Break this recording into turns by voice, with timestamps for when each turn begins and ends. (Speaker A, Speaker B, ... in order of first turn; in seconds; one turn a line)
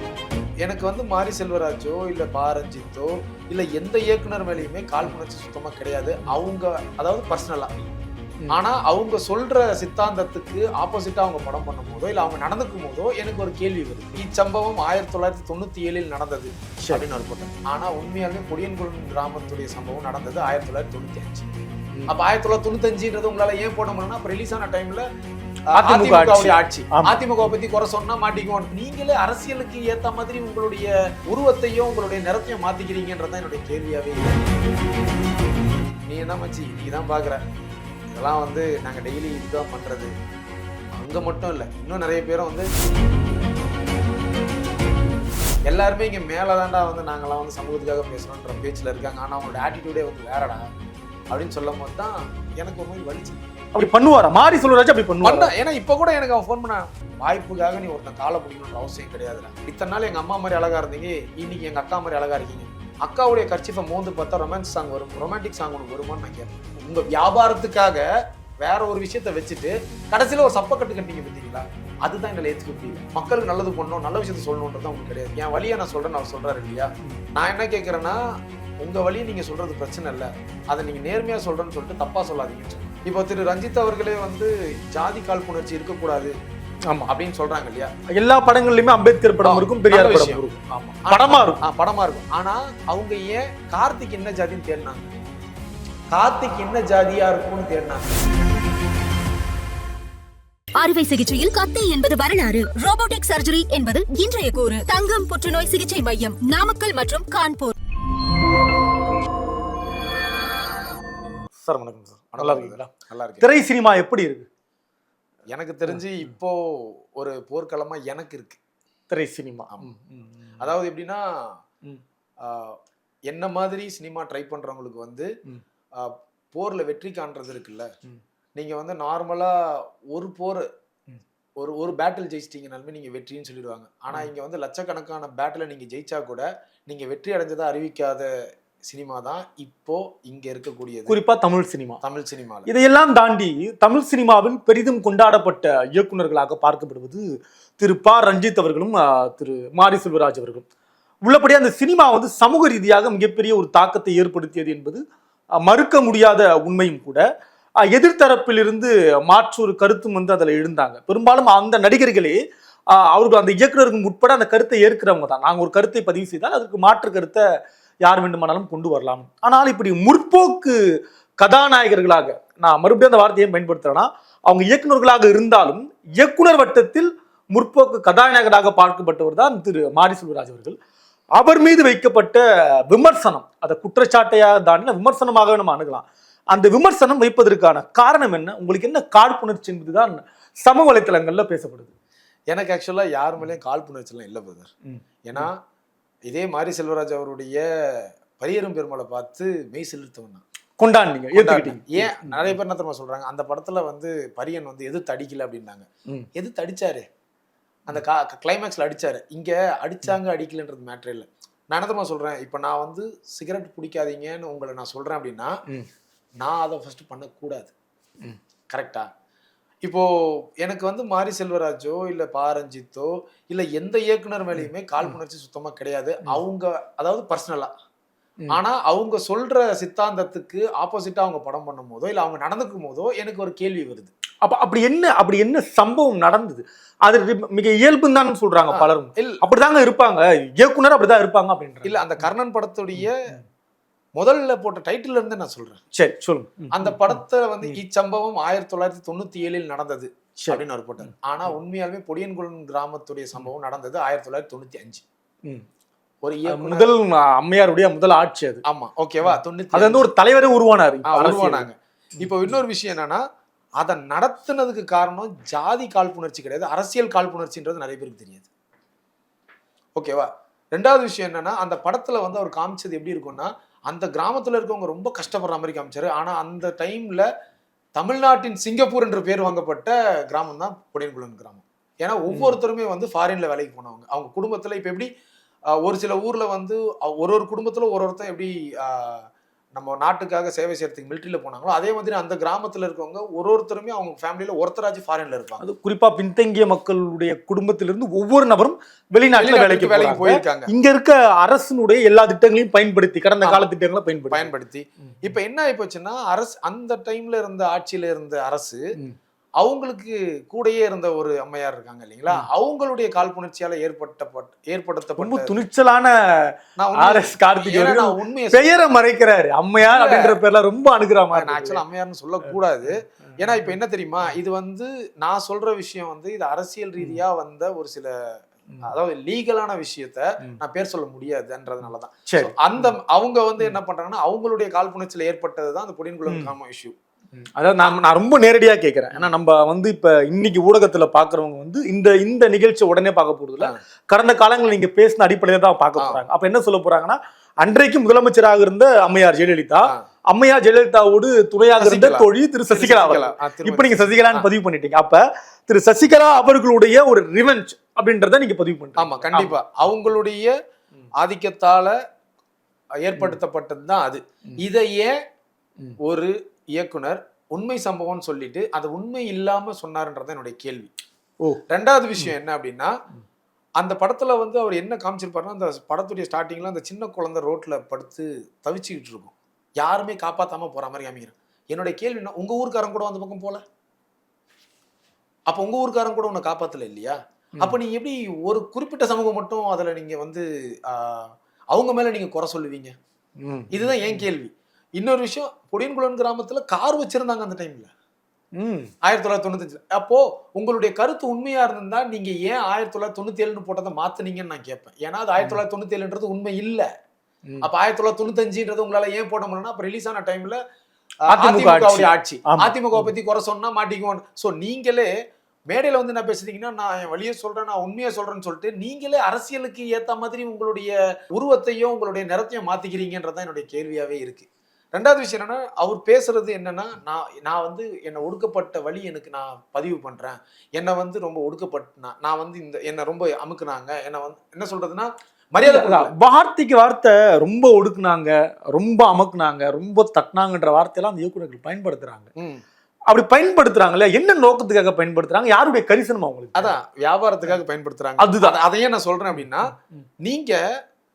Speaker A: 0.6-7.7
Speaker A: 8.5-21.5
Speaker A: 22.1-25.0
Speaker A: 25.7-34.4
Speaker B: 25.8-27.2
Speaker A: 36.1-37.4
Speaker A: 38.1-40.1
Speaker A: 40.9-42.7
Speaker A: 45.7-50.6
Speaker A: 51.3-53.8
Speaker B: 53.7-55.5
Speaker A: 55.2-68.1
Speaker A: 68.6-78.3
Speaker A: 78.8-86.3
Speaker A: 87.1-87.9
Speaker B: 88.1-91.6
Speaker A: 89.4-95.1
Speaker A: 96.1-98.1
Speaker C: 100.8-107.7
Speaker B: 111.6-112.9
Speaker A: 112.3-113.5
Speaker B: 113.4-114.5
Speaker A: 115.5-118.6
Speaker B: 115.9-116.2
Speaker B: 119.1-120.7
Speaker A: 120.6-121.2
Speaker A: 122.4-122.8
Speaker A: 123.3-125.3
Speaker A: 126.0-127.9
Speaker A: 128.6-130.7
Speaker A: 131.6-138.3
Speaker A: 138.9-141.2
Speaker B: 141.1-142.0
Speaker A: 142.0-142.7
Speaker B: 142.7-150.6
Speaker B: 151.2-155.0
Speaker B: 155.6-157.2
Speaker B: 157.8-167.4
Speaker B: 168.0-180.8
Speaker B: 181.3-191.9
Speaker A: 192.5-194.7
Speaker B: 194.8-195.5
Speaker A: 195.2-195.6
Speaker A: 196.3-200.4
Speaker B: 200.8-202.6
Speaker A: 201.3-207.0
Speaker A: 207.8-215.6
Speaker A: 216.4-217.7
Speaker A: 218.7-219.1
Speaker A: 219.8-220.1
Speaker A: 220.6-227.7
Speaker B: 224.6-225.1
Speaker A: 228.5-234.1
Speaker B: 234.4-242.2
Speaker A: 238.7-239.4
Speaker A: 241.8-243.3
Speaker B: 243.0-243.4
Speaker A: 244.2-245.8
Speaker B: 245.9-247.8
Speaker A: 246.7-255.0
Speaker B: 250.4-251.1
Speaker A: 256.2-256.9
Speaker B: 256.5-258.6
Speaker A: 258.6-260.1
Speaker B: 259.2-261.7
Speaker A: 261.1-263.2
Speaker B: 262.2-262.5
Speaker A: 263.8-268.5
Speaker A: 269.9-277.3
Speaker A: 277.9-285.1
Speaker B: 282.3-282.6
Speaker A: 285.8-295.6
Speaker B: 295.6-304.5
Speaker A: 299.4-300.7
Speaker A: 304.3-308.8
Speaker B: 305.0-305.3
Speaker A: 309.6-315.6
Speaker B: 315.2-321.8
Speaker A: 316.8-318.8
Speaker A: 319.8-320.4
Speaker A: 321.3-328.1
Speaker B: 323.5-323.7
Speaker A: 328.8-336.9
Speaker B: 332.3-332.9
Speaker B: 336.3-336.5
Speaker B: 337.4-359.6
Speaker A: 351.8-354.5
Speaker A: 359.0-360.5
Speaker A: 361.2-361.9
Speaker A: 363.0-365.1
Speaker A: 366.0-370.9
Speaker A: 371.7-372.9
Speaker A: 373.8-383.6
Speaker A: 385.5-392.9
Speaker B: 393.4-394.2
Speaker A: 393.7-397.9
Speaker B: 398.5-398.9
Speaker A: 399.0-406.9
Speaker A: 407.6-410.6
Speaker B: 411.3-413.1
Speaker A: 411.3-415.1
Speaker A: 415.7-436.1
Speaker B: 435.6-442.3
Speaker A: 442.4-442.6
Speaker B: 443.1-446.8
Speaker A: 446.5-450.6
Speaker B: 448.2-448.6
Speaker B: 449.3-449.6